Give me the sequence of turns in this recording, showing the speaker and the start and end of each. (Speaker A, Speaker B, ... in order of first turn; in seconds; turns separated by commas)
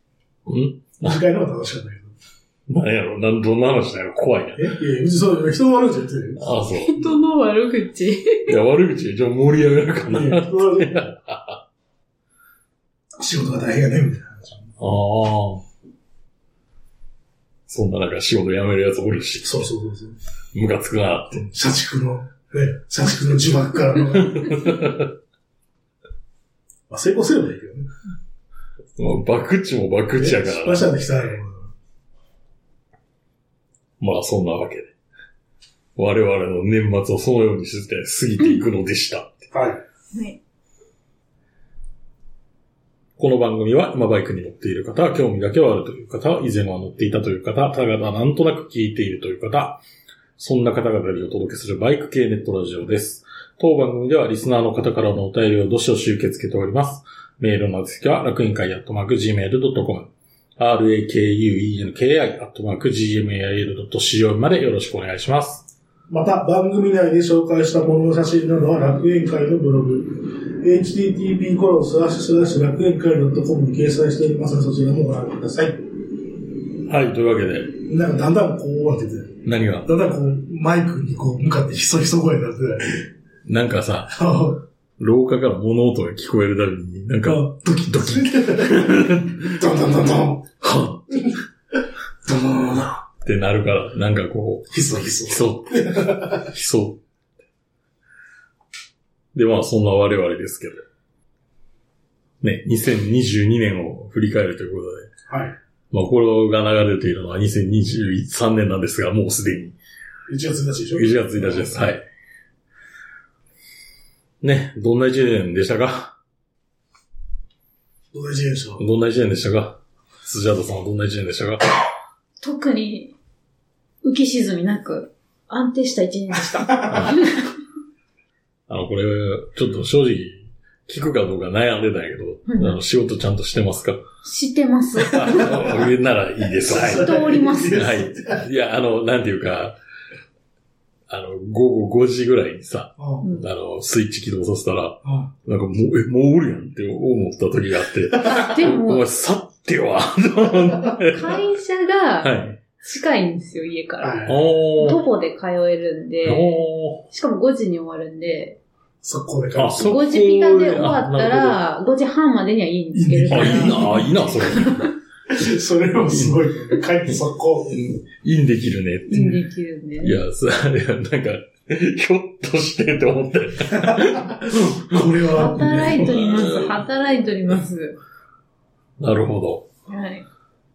Speaker A: 0.5-1.2, Speaker B: 1.0-2.1, Speaker A: 2.7-4.7, Speaker B: 4.6-6.5, Speaker A: 6.4-7.0, Speaker C: 6.8-8.5, Speaker A: 8.5-11.6, Speaker B: 10.1-11.1, Speaker B: 13.2-14.7, Speaker A: 14.8-15.7, Speaker A: 17.7-19.7, Speaker B: 19.4-20.2, Speaker A: 20.5-21.5, Speaker B: 21.4-24.8, Speaker A: 24.1-25.1, Speaker B: 26.9-27.9, Speaker A: 29.0-30.9, Speaker B: 30.2-31.7, Speaker A: 34.0-34.9, Speaker A: 36.0-39.4, Speaker B: 39.5-39.8, Speaker C: 40.1-40.4, Speaker A: 43.2-49.8, Speaker A: 50.4-65.7, Speaker B: 66.1-75.8, Speaker A: 76.9-77.8, Speaker B: 77.9-83.1, Speaker A: 79.5-79.9, Speaker A: 83.5-84.1, Speaker B: 84.1-84.6, Speaker A: 85.0-89.6, Speaker B: 87.2-90.5, Speaker A: 90.6-91.3, Speaker B: 92.2-93.0, Speaker A: 93.2-94.7, Speaker B: 94.7-96.5, Speaker A: 95.2-97.0, Speaker A: 99.3-100.8, Speaker A: 102.4-105.1, Speaker B: 105.3-105.5, Speaker A: 105.9-109.8, Speaker B: 110.3-111.8, Speaker A: 110.9-112.0, Speaker A: 114.4-116.2, Speaker B: 118.1-118.8, Speaker A: 118.8-121.6, Speaker C: 122.4-123.2, Speaker C: 124.0-127.5, Speaker A: 126.9-127.2, Speaker A: 128.7-134.0, Speaker C: 132.5-132.8, Speaker C: 134.2-135.8, Speaker A: 135.1-139.8, Speaker B: 136.7-138.4, Speaker C: 136.8-138.0, Speaker A: 141.1-151.4, Speaker B: 143.0-143.2, Speaker C: 143.2-143.5, Speaker B: 145.0-145.3, Speaker C: 148.1-149.0, Speaker C: 151.0-158.6, Speaker A: 152.2-152.6, Speaker B: 154.0-154.6, Speaker A: 154.3-155.0, Speaker A: 156.2-157.1, Speaker B: 159.0-159.9, Speaker A: 159.6-161.6, Speaker C: 159.8-164.9, Speaker B: 162.9-164.2, Speaker A: 163.3-164.9, Speaker B: 165.3-167.8, Speaker A: 166.1-166.4, Speaker A: 167.7-169.4, Speaker C: 169.1-170.2, Speaker A: 170.0-175.2, Speaker B: 173.7-176.2, Speaker C: 175.3-178.0, Speaker A: 175.9-176.8, Speaker A: 179.0-179.7, Speaker C: 179.9-180.3